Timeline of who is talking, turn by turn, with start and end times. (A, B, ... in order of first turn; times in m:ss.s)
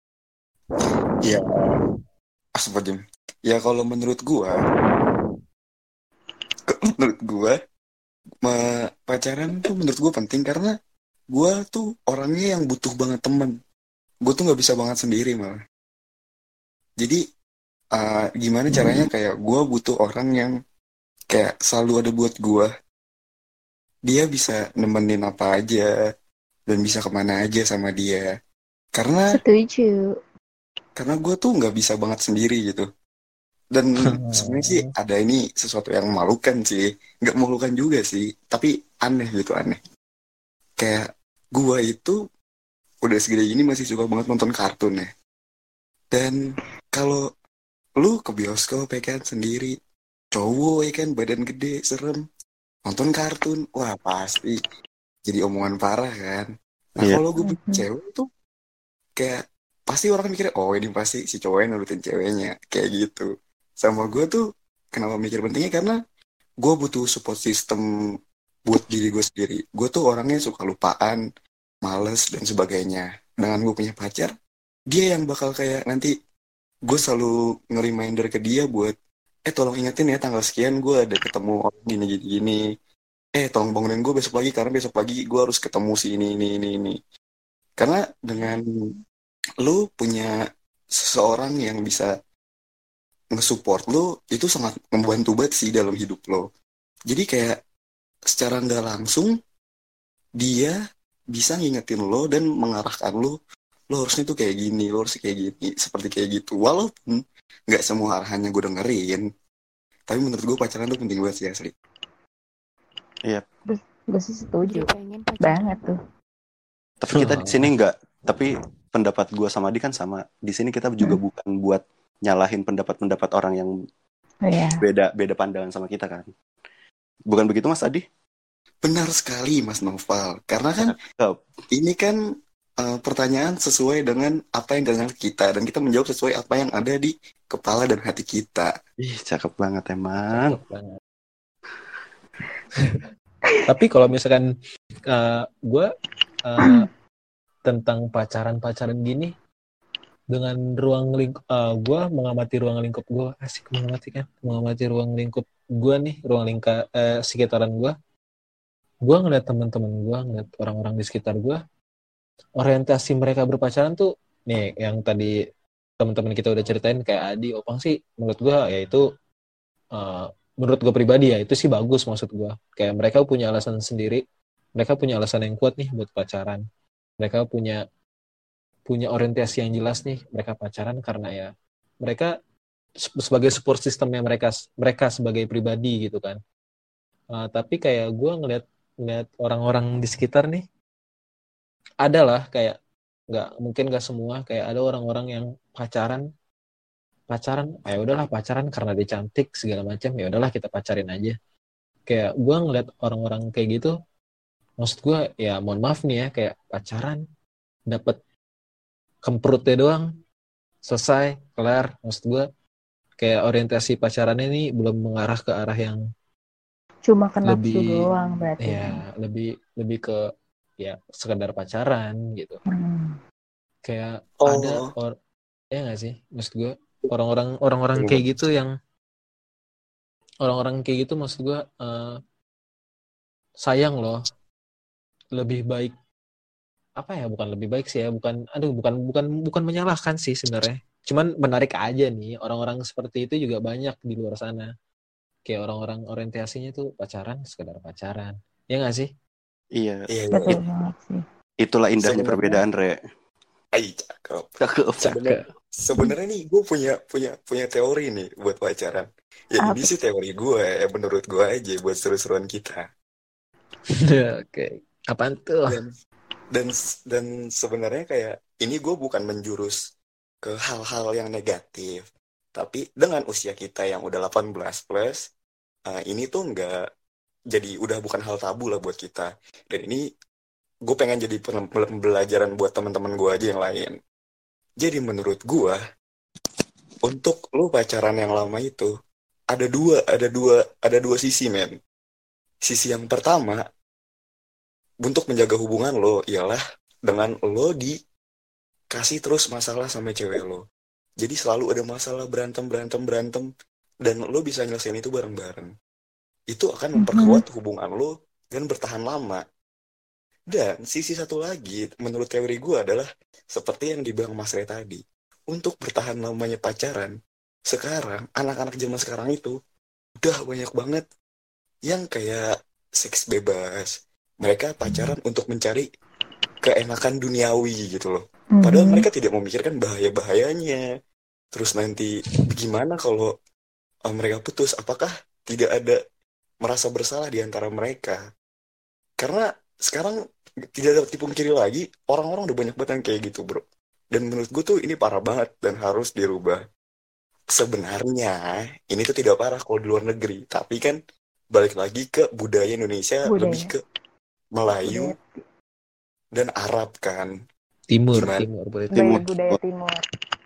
0:00.8-0:01.1 A
0:01.2-0:01.8 B
0:02.6-0:04.6 B
0:04.7-0:05.4 A
0:06.7-0:07.6 B
0:08.4-0:10.7 B
0:11.3-0:13.5 B
0:14.2-0:15.6 B
0:17.9-0:20.5 B
0:21.3-0:22.7 B
0:24.1-0:25.9 B
0:26.7-0:28.2 B
0:29.0-0:29.4 B
0:29.3-0:30.0 C
0:31.0-0:32.9 B
0:33.7-0:39.8 B
0:34.1-0:34.9 D
0:40.8-0:42.2 B
0:43.0-0:45.1 B
0:46.9-0:47.2 B
0:48.0-0:49.7 B
0:50.3-0:52.2 B
0:52.9-0:54.6 B
0:55.3-0:58.3 B
0:57.4-0:57.8 C
0:59.2-1:03.3 B
1:03.8-1:06.0 B
1:06.6-1:07.8 B
1:08.7-1:11.2 B
1:11.8-1:14.3 B
1:14.9-1:16.1 B
1:16.9-1:18.9 B
1:19.5-1:22.6 B
1:23.4-1:27.0 B
1:27.8-1:28.6 B
1:29.6-1:30.4 B
1:30.9-1:32.1 B
1:33.3-1:36.5 B
1:37.1-1:37.6 B
1:38.3-1:39.3 B
1:40.4-1:40.8 B
1:41.3-1:43.4 B
1:43.9-1:49.2 B
1:50.1-1:51.7 B
1:53.7-1:54.9 C
1:54.6-1:55.8 A
1:55.4-1:56.0 C
1:57.0-2:03.7 E
1:57.1-1:57.7 D
2:04.4-2:04.8 C
2:04.8-2:06.3 E
2:07.3-2:08.0 E
2:08.8-2:11.0 B
2:10.8-2:11.4 E
2:11.7-2:12.2 B
2:12.8-2:18.7 B
2:19.0-2:20.6 E
2:20.3-2:21.0 D
2:23.7-2:24.4 D
2:25.1-2:25.9 D
2:26.5-2:26.9 D
2:26.6-2:26.9 C
2:27.6-2:29.3 D
2:30.3-2:37.9 D
2:39.0-2:41.6 D
2:42.6-2:45.3 D
2:46.0-2:49.0 D
2:50.0-2:54.2 D
2:54.8-2:56.6 D
2:57.2-2:57.8 D
2:58.9-3:01.5 D
3:02.0-3:02.3 D
3:03.0-3:06.4 D
3:07.3-3:10.6 D
3:12.0-3:12.8 D
3:13.3-3:16.2 D
3:17.3-3:21.4 D
3:22.1-3:23.9 D
3:24.8-3:27.2 D
3:27.9-3:28.2 D
3:29.2-3:30.0 D
3:30.8-3:32.5 D
3:33.2-3:36.0 D
3:37.1-3:39.0 C
3:37.4-3:38.1 D
3:38.6-3:40.2 D
3:40.8-3:42.6 D
3:42.7-3:43.2 C
3:43.8-3:45.1 D
3:44.4-3:44.9 B
3:45.7-3:48.7 D
3:48.0-3:48.2 B
3:50.4-3:52.2 D
3:53.6-3:54.2 D
3:55.4-3:55.9 D
3:57.0-4:04.7 D
4:05.4-4:09.1 D
4:09.8-4:10.1 E
4:10.1-4:10.6 B
4:10.3-4:11.2 C
4:11.6-4:13.0 E
4:12.0-4:12.6 B
4:13.8-4:22.8 B
4:14.6-4:15.0 E
4:15.0-4:15.4 D
4:19.6-4:19.9 C
4:24.0-4:25.8 D
4:26.5-4:29.8 B
4:30.4-4:32.0 B
4:32.6-4:35.2 B
4:35.9-4:36.8 B
4:37.5-4:40.0 B
4:40.9-4:44.0 B
4:44.8-4:45.8 B
4:47.0-4:48.9 B
4:49.5-4:51.8 B
4:52.6-4:53.6 B
4:55.0-4:58.0 B
4:58.9-5:00.6 B
5:01.2-5:03.5 B
5:04.0-5:05.7 B
5:06.5-5:09.4 B
5:07.0-5:07.4 C
5:10.5-5:15.0 B
5:15.5-5:17.1 B
5:17.7-5:19.6 B
5:20.2-5:21.0 B
5:21.9-5:22.4 B
5:23.0-5:25.9 B
5:26.6-5:30.8 B
5:28.6-5:29.1 C
5:31.5-5:33.3 B
5:34.1-5:36.0 B
5:36.6-5:38.2 B
5:39.2-5:40.2 B
5:40.8-5:46.6 B
5:47.5-5:51.0 B
5:51.5-5:53.8 B
5:53.3-5:53.7 C
5:54.5-5:55.2 B
5:54.8-5:55.4 C
5:56.3-5:57.3 B
5:57.9-5:59.2 D
5:58.1-5:58.5 B
5:58.9-5:59.6 E
5:58.9-6:00.0 C